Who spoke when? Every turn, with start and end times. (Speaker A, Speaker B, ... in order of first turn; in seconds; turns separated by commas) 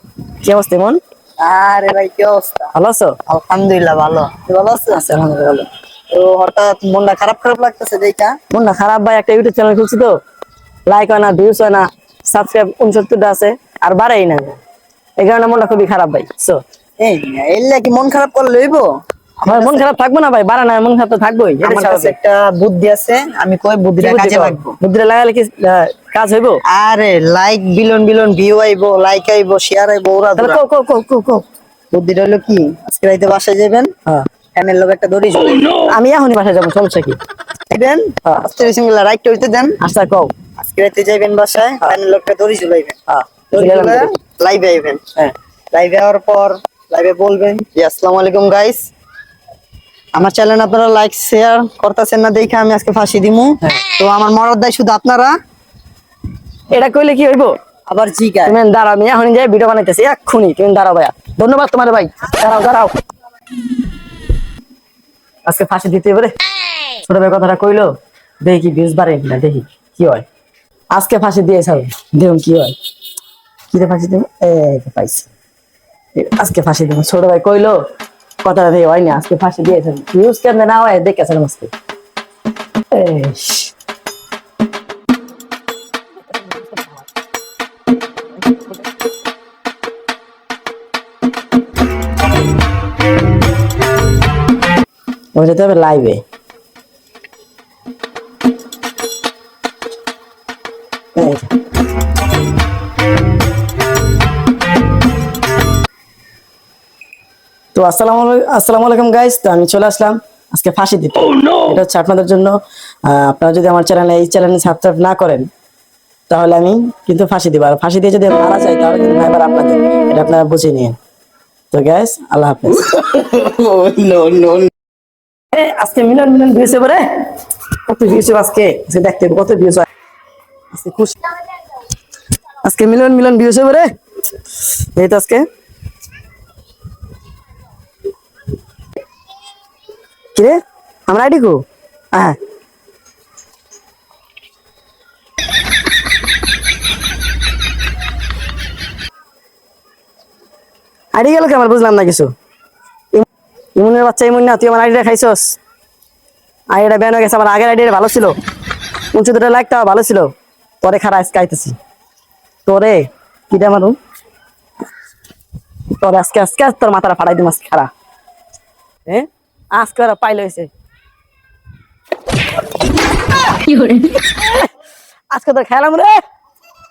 Speaker A: 0.4-1.0, Speaker B: 1.4-2.7, Speaker A: 2.7-3.2, Speaker B: 3.3-5.0, Speaker A: 4.9-5.7, Speaker B: 6.1-8.4, Speaker A: 8.5-10.2, Speaker A: 10.8-14.6, Speaker A: 15.2-16.6, Speaker B: 17.0-18.9, Speaker B: 19.4-19.9, Speaker A: 19.4-22.1, Speaker B: 21.6-24.8, Speaker A: 24.0-26.6, Speaker B: 26.7-30.6, Speaker A: 30.4-31.4, Speaker B: 31.9-33.9, Speaker B: 34.5-35.9, Speaker A: 35.8-37.2, Speaker B: 37.7-39.8, Speaker A: 39.8-40.3, Speaker B: 40.6-43.0, Speaker A: 43.1-44.1, Speaker B: 43.5-45.0, Speaker B: 45.7-48.9, Speaker B: 50.1-55.4, Speaker A: 56.7-57.5, Speaker B: 57.9-58.6, Speaker A: 58.5-62.9, Speaker A: 65.4-66.3, Speaker A: 67.0-70.2, Speaker A: 70.9-72.8, Speaker A: 73.7-75.3, Speaker A: 76.1-77.8, Speaker A: 78.4-81.7, Speaker A: 82.9-83.7, Speaker A: 95.3-96.2, Speaker A: 101.2-101.5, Speaker A: 107.7-115.5, Speaker A: 116.3-121.0, Speaker A: 121.7-124.7, Speaker A: 125.5-127.3, Speaker A: 127.8-129.9, Speaker A: 130.7-131.2, Speaker A: 132.6-133.9, Speaker A: 134.9-135.4, Speaker A: 140.3-142.4, Speaker A: 151.1-152.3, Speaker A: 153.8-155.6, Speaker A: 156.7-158.3, Speaker A: 159.1-161.8, Speaker A: 162.7-163.9, Speaker A: 165.9-167.9, Speaker A: 169.1-170.7, Speaker A: 173.7-174.7, Speaker A: 175.3-176.2